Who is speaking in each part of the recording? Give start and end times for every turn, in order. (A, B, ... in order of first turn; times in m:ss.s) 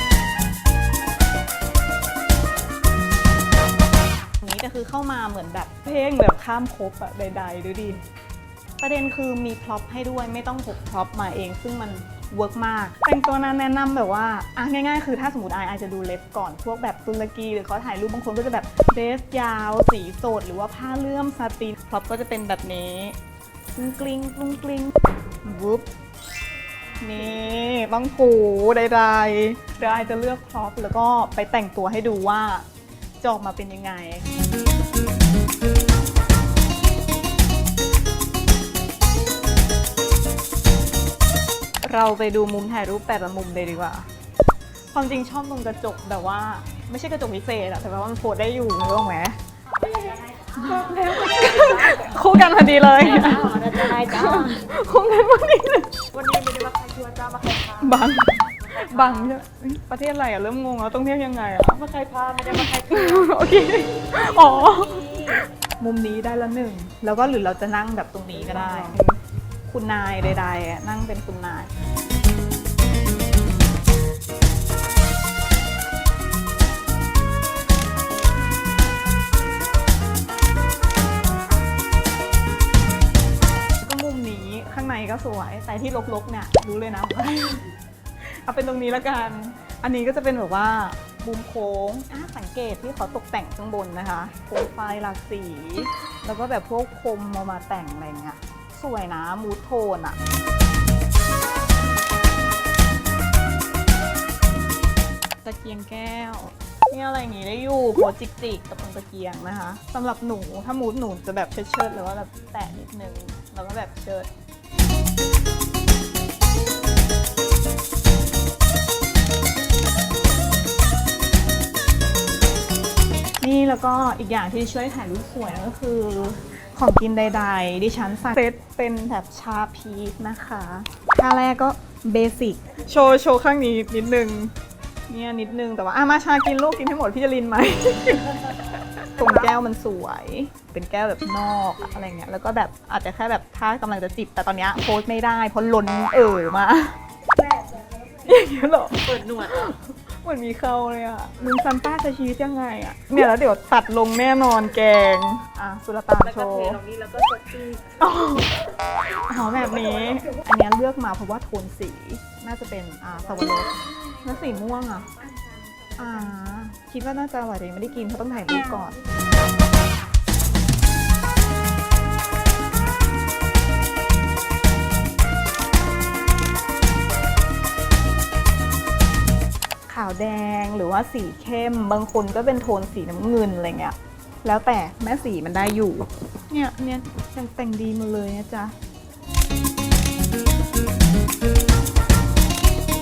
0:04.4-0:08.0 A
0:08.8-0:23.2 A
0:23.8-0:25.9 A
0:27.0-0:32.7 A
0:33.2-0:34.3 A
0:41.8-0:44.1 A
0:44.9-0:49.9 A
0:49.9-0:52.0 B
0:50.5-0:56.0 A
0:53.0-0:54.6 B
0:56.1-0:58.0 B
0:57.8-1:01.9 A
0:58.6-0:59.3 B
1:01.8-1:03.4 B
1:02.5-1:11.7 A
1:04.7-1:05.0 B
1:08.5-1:08.8 B
1:23.8-1:27.7 A
1:28.4-1:40.2 A
1:45.4-1:54.3 A
2:03.4-2:14.5 A
2:15.1-2:27.0 A
2:27.4-2:28.2 B
2:28.2-2:36.8 A
2:29.1-2:29.7 B
2:36.2-2:38.0 B
2:38.0-2:38.6 A
2:39.2-2:45.3 A
2:45.3-2:45.9 B
2:46.0-2:49.0 A
2:59.9-3:08.7 A